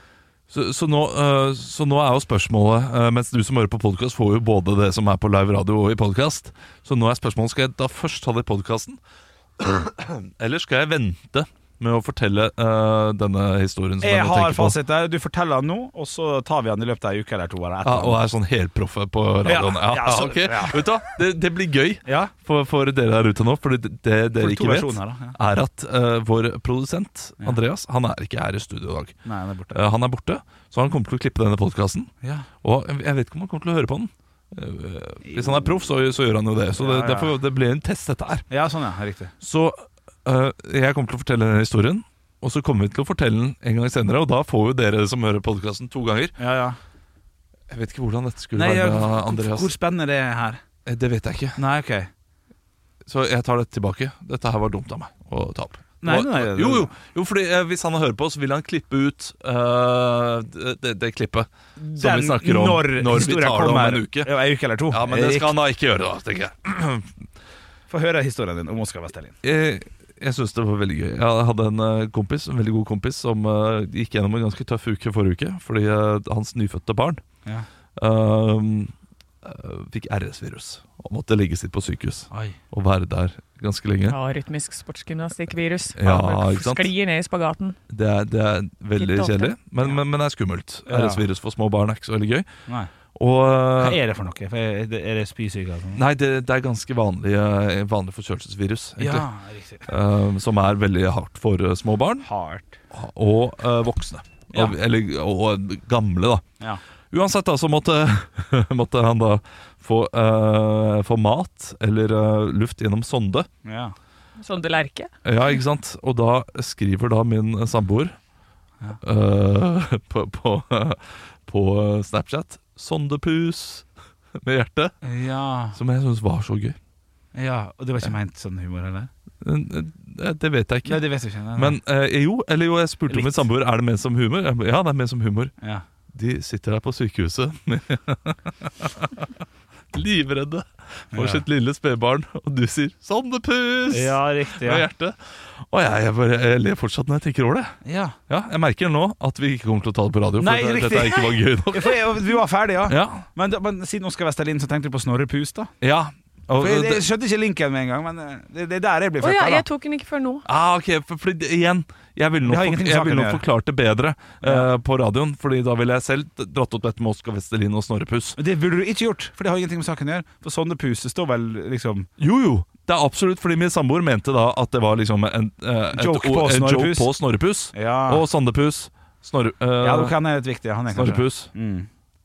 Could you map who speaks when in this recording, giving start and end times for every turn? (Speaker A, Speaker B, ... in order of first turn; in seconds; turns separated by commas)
Speaker A: 0.5-9.0, Speaker A: 9.6-14.8, Speaker B: 14.0-18.2, Speaker A: 17.8-29.2, Speaker B: 19.4-20.9, Speaker B: 22.0-22.3, Speaker B: 24.4-25.4, Speaker B: 29.2-29.9, Speaker A: 29.7-32.1, Speaker B: 32.2-32.5, Speaker A: 32.6-38.4, Speaker B: 35.3-35.6, Speaker B: 36.8-37.3, Speaker B: 38.5-39.3, Speaker A: 39.4-46.3, Speaker B: 46.4-46.8, Speaker A: 47.7-49.7, Speaker B: 48.5-50.6, Speaker A: 50.9-51.6, Speaker B: 51.6-52.1, Speaker A: 53.0-64.3, Speaker B: 56.0-56.9, Speaker B: 61.8-65.5, Speaker A: 64.9-67.1, Speaker B: 67.9-69.3, Speaker A: 69.4-77.2, Speaker A: 78.0-84.2, Speaker B: 82.3-82.6, Speaker C: 84.1-87.8, Speaker A: 86.0-86.9, Speaker A: 87.9-92.5, Speaker C: 89.0-89.5, Speaker B: 90.9-91.2, Speaker A: 93.1-94.0, Speaker B: 93.8-96.0, Speaker A: 95.9-99.3, Speaker B: 99.0-99.9, Speaker A: 99.8-102.3, Speaker B: 102.2-102.8, Speaker A: 102.9-106.4, Speaker B: 104.5-104.8, Speaker A: 107.1-113.5, Speaker B: 113.6-113.9, Speaker C: 114.4-115.1, Speaker A: 115.2-118.1, Speaker A: 119.0-123.9, Speaker A: 124.4-124.9, Speaker B: 125.0-125.8, Speaker A: 125.7-126.8, Speaker B: 127.3-129.1, Speaker A: 129.4-135.5, Speaker B: 130.8-131.8, Speaker B: 133.1-133.4, Speaker A: 136.1-139.3, Speaker A: 139.9-147.7, Speaker B: 141.1-141.4, Speaker B: 143.9-144.8, Speaker B: 147.8-148.1, Speaker A: 148.3-152.1, Speaker B: 150.4-155.7, Speaker A: 152.9-153.2, Speaker A: 155.8-157.0, Speaker B: 156.6-159.7, Speaker C: 159.2-160.4, Speaker A: 160.4-168.4, Speaker B: 162.4-163.4, Speaker B: 164.4-164.7, Speaker B: 168.4-172.1, Speaker A: 172.2-180.2, Speaker B: 175.9-177.1, Speaker B: 177.7-178.2, Speaker B: 179.8-181.9, Speaker A: 180.9-181.5